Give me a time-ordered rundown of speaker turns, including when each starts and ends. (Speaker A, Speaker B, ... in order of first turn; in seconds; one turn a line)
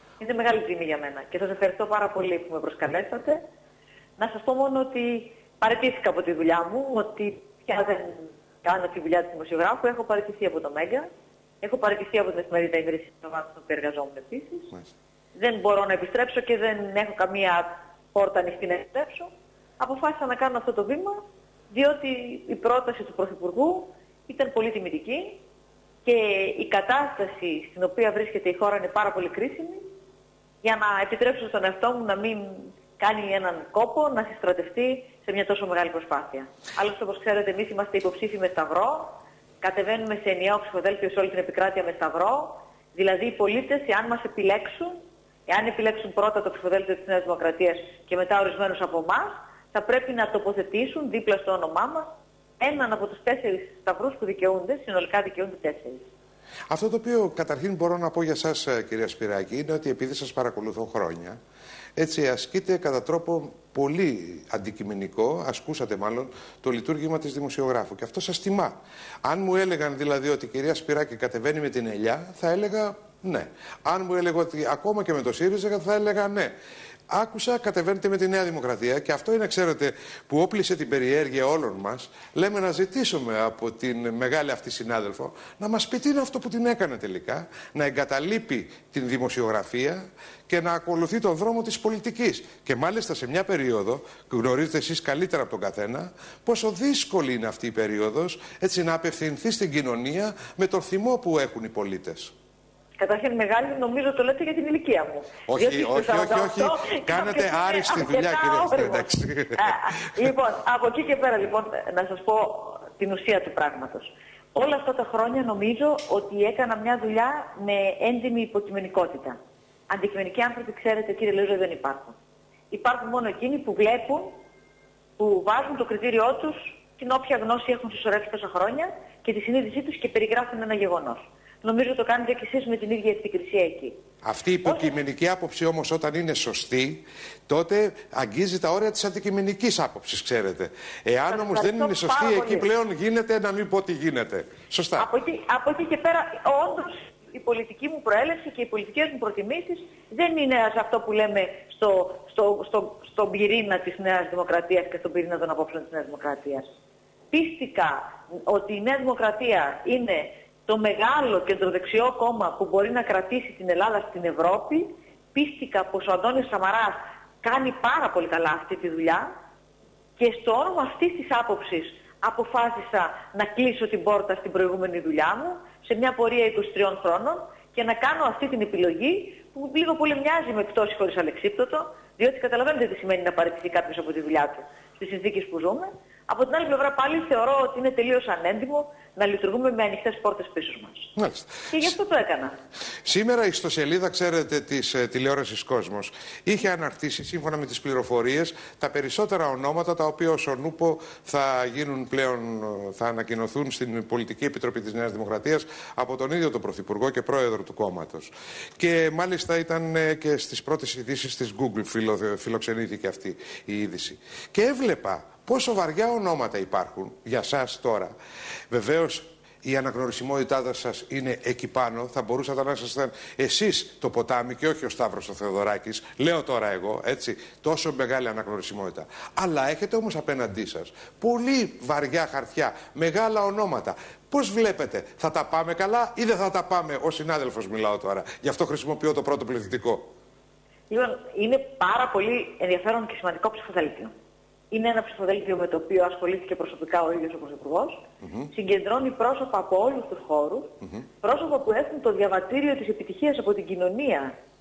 Speaker A: 0.2-3.4
Speaker A: 4.2-11.1
Speaker A: 11.6-14.7
Speaker A: 15.3-25.4
Speaker A: 26.1-29.8
Speaker A: 30.6-52.1
Speaker A: 52.6-56.1
Speaker B: 56.7-61.4
Speaker B: 62.0-76.5
Speaker B: 77.1-102.3
Speaker A: 103.0-119.4
Speaker B: 105.5-110.1
Speaker A: 119.9-122.1
Speaker A: 122.7-124.4
Speaker A: 125.2-134.0
Speaker B: 134.2-145.1
Speaker A: 134.6-134.9
Speaker A: 141.3-142.7
Speaker A: 145.0-156.6
Speaker A: 157.3-169.3
Speaker A: 170.2-191.1
Speaker B: 191.2-191.9
Speaker A: 191.7-192.6
Speaker B: 193.1-218.2
Speaker B: 218.7-240.1
Speaker A: 240.9-244.1
Speaker A: 244.7-254.3
Speaker B: 248.2-248.5